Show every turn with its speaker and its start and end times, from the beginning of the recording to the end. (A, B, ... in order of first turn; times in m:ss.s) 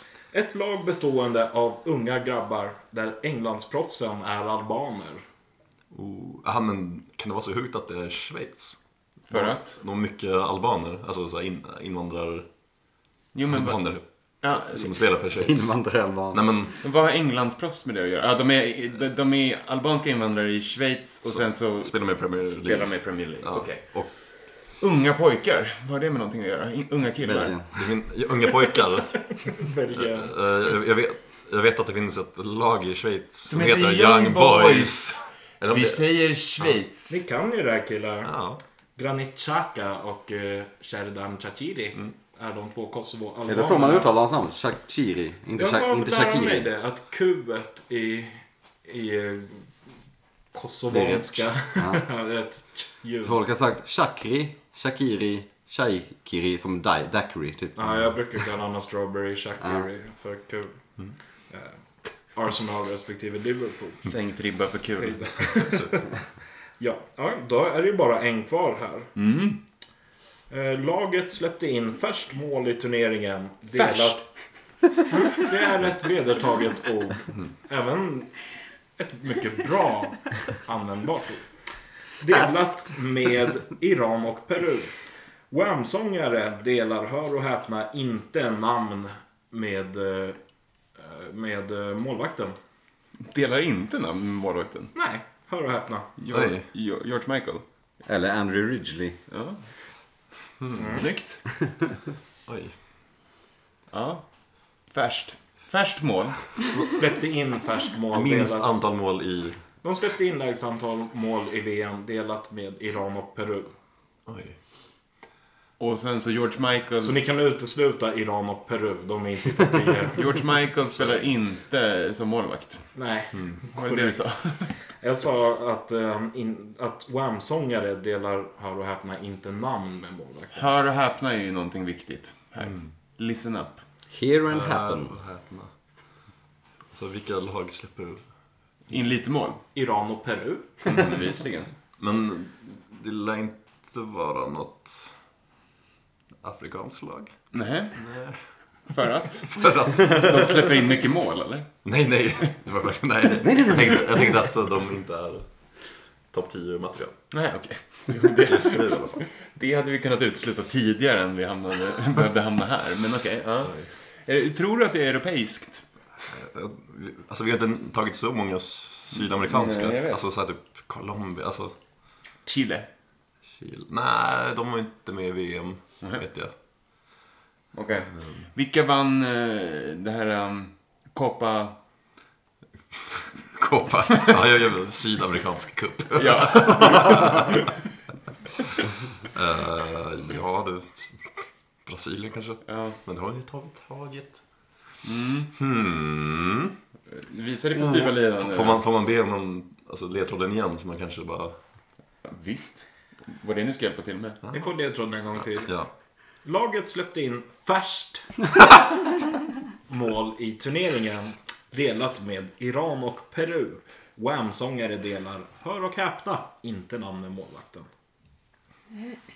0:00.3-0:05.2 A
0:05.9-0:12.5 B
0:09.3-0:09.8 C
0:13.3-0:14.9 C
0:13.5-0:15.8 B
0:15.4-0:16.4 D
0:16.3-0:16.8 B
0:16.8-0:24.1 C
0:21.2-0:24.1 B
0:24.8-0:27.6 C
0:27.2-0:27.6 D
0:27.7-0:29.3 B
0:29.6-0:30.4 A
0:30.0-0:36.0 B
0:33.5-0:37.2 C
0:37.1-0:38.4 A
0:38.2-0:38.6 B
0:39.0-0:44.2 A
0:43.4-0:46.7 D
0:45.6-0:49.7 A
0:50.5-0:53.4 A
0:50.9-0:52.0 D
0:53.2-0:58.0 D
0:57.8-1:00.7 A
0:59.6-0:59.9 D
1:01.5-1:01.7 A
1:02.3-1:04.1 A
1:04.0-1:05.7 C
1:05.0-1:06.1 A
1:06.8-1:09.1 A
1:09.2-1:09.6 C
1:10.5-1:14.2 A
1:13.8-1:14.2 C
1:15.1-1:18.4 A
1:19.0-1:21.5 A
1:22.2-1:25.0 A
1:25.5-1:30.4 A
1:31.0-1:32.6 A
1:33.2-1:34.9 C
1:34.9-1:36.2 A
1:36.2-1:37.6 C
1:36.3-1:36.7 B
1:38.0-1:39.2 D
1:39.3-1:39.6 C
1:40.7-1:41.0 A
1:40.9-1:41.4 C
1:42.5-1:42.7 B
1:43.9-1:46.6 C
1:46.8-1:48.8 A
1:48.1-1:49.6 B
1:49.8-1:53.7 A
1:54.3-1:54.6 B
1:55.8-1:57.2 C
1:57.0-2:00.2 A
2:00.2-2:03.0 C
2:02.9-2:04.2 A
2:03.3-2:03.6 B
2:03.7-2:04.7 C
2:05.0-2:10.7 A
2:10.5-2:13.8 C
2:12.6-2:12.9 B
2:14.1-2:15.1 D
2:14.5-2:15.7 B
2:16.9-2:18.2 B
2:18.9-2:19.6 C
2:19.7-2:20.9 A
2:20.8-2:21.7 C
2:22.0-2:25.1 B
2:26.4-2:27.3 B
2:27.5-2:28.0 C
2:27.9-2:28.4 B
2:28.9-2:31.7 C
2:29.5-2:30.5 B
2:31.8-2:35.7 B
2:33.5-2:33.8 D
2:36.3-2:37.2 B
2:37.3-2:45.8 C
2:38.4-2:39.2 B
2:43.6-2:43.9 B
2:46.3-2:51.8 B
2:49.2-2:50.2 C
2:52.4-2:52.9 C
2:53.6-2:56.5 B
2:57.7-3:01.7 C
2:58.2-2:58.5 B
3:03.5-3:07.5 B
3:06.1-3:07.7 C
3:09.3-3:14.4 B
3:12.6-3:13.0 C
3:15.0-3:15.5 C
3:15.6-3:16.7 B
3:17.1-3:18.8 C
3:17.8-3:21.6 B
3:22.2-3:24.4 C
3:24.5-3:25.8 A
3:25.6-3:25.9 B
3:26.4-3:28.8 A
3:29.9-3:37.9 A